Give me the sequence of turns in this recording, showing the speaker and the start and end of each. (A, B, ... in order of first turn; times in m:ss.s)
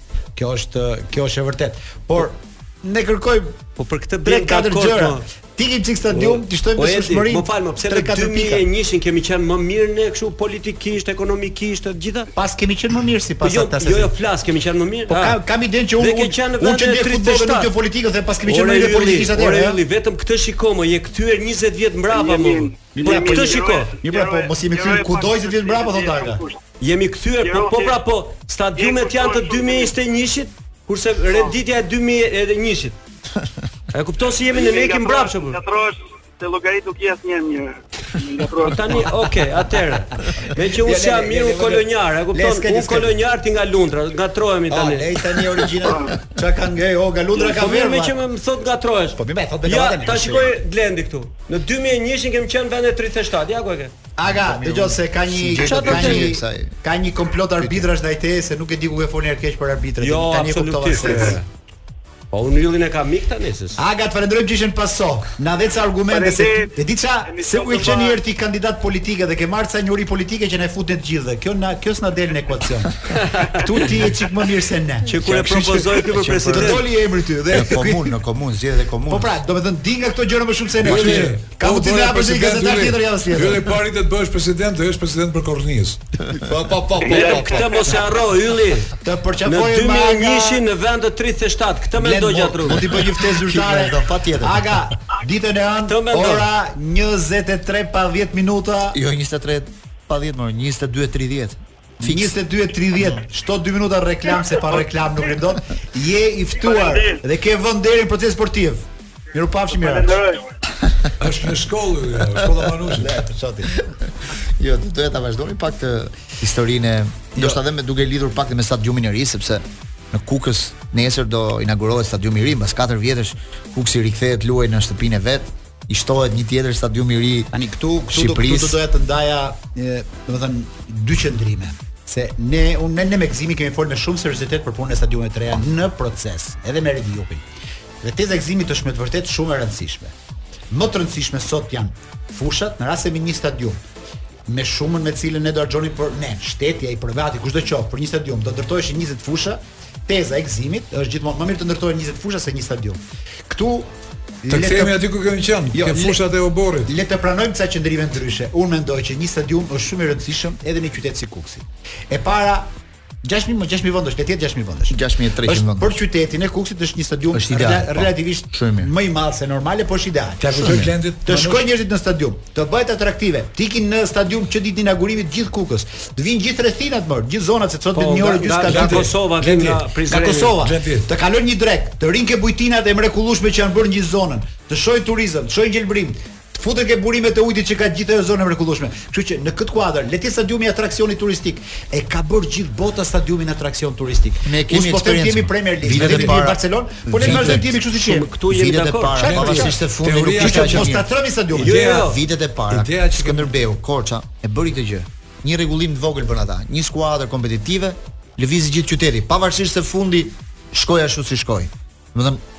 0:00.4-0:03.6 A
0:03.8-0:05.2 B
0:04.2-0:08.6 A
0:06.1-0:12.3 B
0:12.3-0:14.1 A
0:13.4-0:15.4 B
0:15.1-0:19.8 A
0:16.0-0:17.7 B
0:18.4-0:23.9 B
0:22.1-0:26.6 C
0:23.0-0:26.4 A
0:26.8-0:33.0 B
0:27.4-0:28.0 C
0:28.8-0:29.9 C
0:33.9-0:35.6 B
0:34.5-0:39.1 C
0:38.6-0:45.1 B
0:40.8-0:43.1 A
0:44.7-0:48.2 A
0:45.8-0:46.1 C
0:47.3-0:53.9 B
0:49.2-0:50.5 A
0:54.2-1:01.4 A
0:54.3-0:56.7 D
0:55.6-0:56.3 B
0:57.6-0:57.9 D
1:00.0-1:01.4 B
1:02.3-1:03.8 B
1:03.8-1:15.5 A
1:06.1-1:06.7 C
1:07.3-1:08.2 C
1:13.2-1:13.6 B
1:15.0-1:16.8 B
1:15.2-1:16.8 D
1:16.5-1:18.2 A
1:17.5-1:19.4 D
1:19.1-1:23.7 A
1:20.8-1:26.0 E
1:26.5-1:27.7 A
1:26.6-1:27.3 D
1:27.0-1:33.0 B
1:27.1-1:27.4 C
1:29.0-1:30.6 A
1:31.9-1:39.0 A
1:32.7-1:34.7 D
1:35.9-1:36.5 B
1:38.9-1:42.3 D
1:42.0-1:50.2 A
1:46.6-1:47.2 C
1:49.7-1:50.5 C
1:51.2-1:53.2 E
1:52.9-1:53.7 A
1:53.7-1:54.0 D
1:54.6-2:07.5 D
2:07.5-2:17.4 A
2:08.1-2:08.8 D
2:18.0-2:20.1 A
2:20.7-2:23.8 A
2:24.5-2:33.9 A
2:34.4-2:35.0 A
2:34.5-2:36.9 E
2:35.7-2:36.2 A
2:36.8-2:42.7 A
2:43.2-2:59.1 A
2:44.9-2:45.9 D
2:47.3-2:48.9 D
2:50.4-2:51.6 E
2:57.9-3:00.6 B
2:58.6-2:59.8 E
3:00.1-3:18.3 A
3:00.6-3:01.1 E
3:14.4-3:17.7 D
3:15.9-3:16.3 E
3:17.2-3:17.6 E
3:17.9-3:19.6 B
3:18.5-3:21.0 D
3:19.2-3:21.0 E
3:19.3-3:19.7 A
3:20.4-3:21.8 A
3:21.6-3:22.2 B
3:21.6-3:23.5 E
3:21.8-3:32.4 D